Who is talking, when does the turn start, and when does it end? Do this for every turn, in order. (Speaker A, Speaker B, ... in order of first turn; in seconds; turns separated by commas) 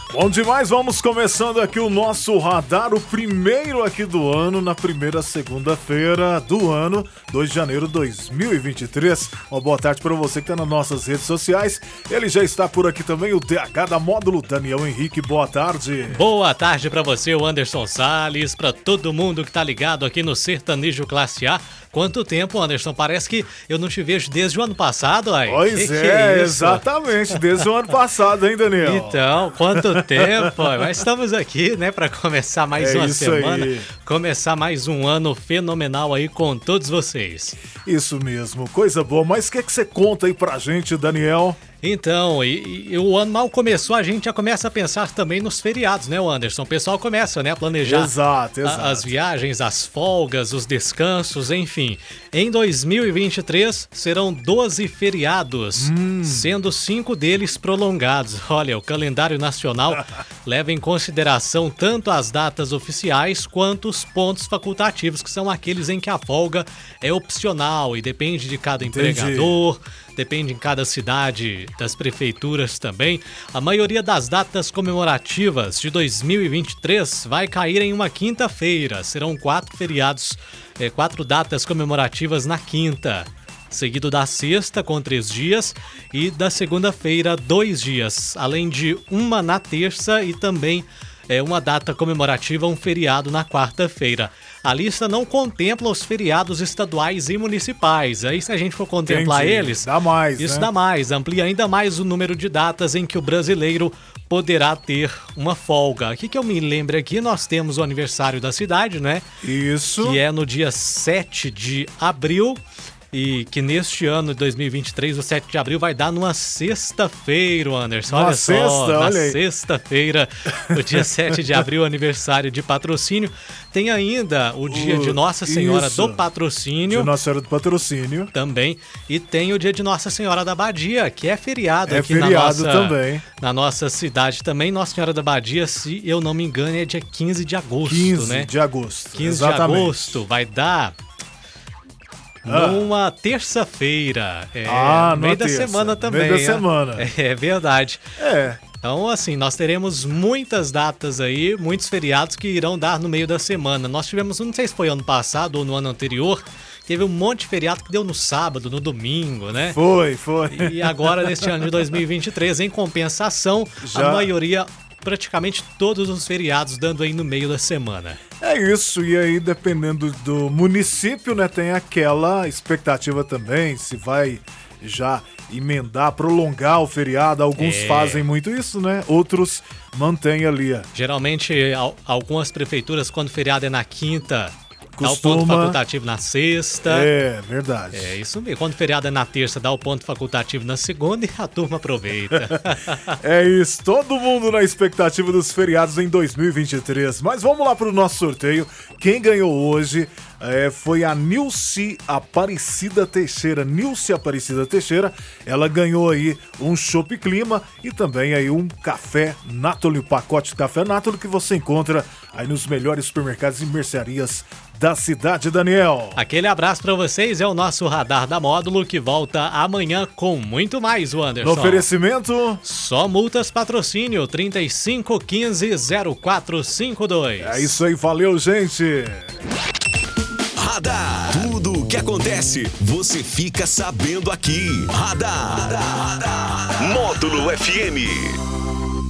Speaker A: 0.1-16.2, Speaker B: 16.1-27.4, Speaker A: 25.5-30.8, Speaker B: 28.8-37.6, Speaker A: 32.8-33.9, Speaker A: 37.9-41.6, Speaker B: 41.8-48.1, Speaker A: 47.8-49.1, Speaker B: 48.6-109.2, Speaker A: 55.8-56.5, Speaker A: 68.8-69.6, Speaker A: 99.1-100.7, Speaker A: 109.4-110.2, Speaker B: 110.0-112.6, Speaker B: 113.1-127.1, Speaker A: 118.1-119.4, Speaker A: 120.8-121.0, Speaker A: 124.7-126.3, Speaker A: 126.8-128.3, Speaker B: 128.3-138.5, Speaker A: 131.9-133.2, Speaker A: 137.8-140.2, Speaker B: 139.1-140.9, Speaker B: 142.4-148.0, Speaker A: 142.5-142.9, Speaker A: 144.7-147.1, Speaker A: 148.2-148.6, Speaker B: 148.7-159.8, Speaker A: 159.6-161.9, Speaker B: 160.5-168.2, Speaker A: 163.8-164.3, Speaker A: 168.4-180.9, Speaker B: 177.6-178.3, Speaker B: 180.9-187.1, Speaker A: 185.0-185.8, Speaker A: 186.8-188.2, Speaker B: 187.9-193.2, Speaker A: 193.2-216.2, Speaker B: 216.2-221.9, Speaker A: 221.4-222.6, Speaker B: 222.6-227.8, Speaker A: 227.4-229.3, Speaker C: 230.6-238.4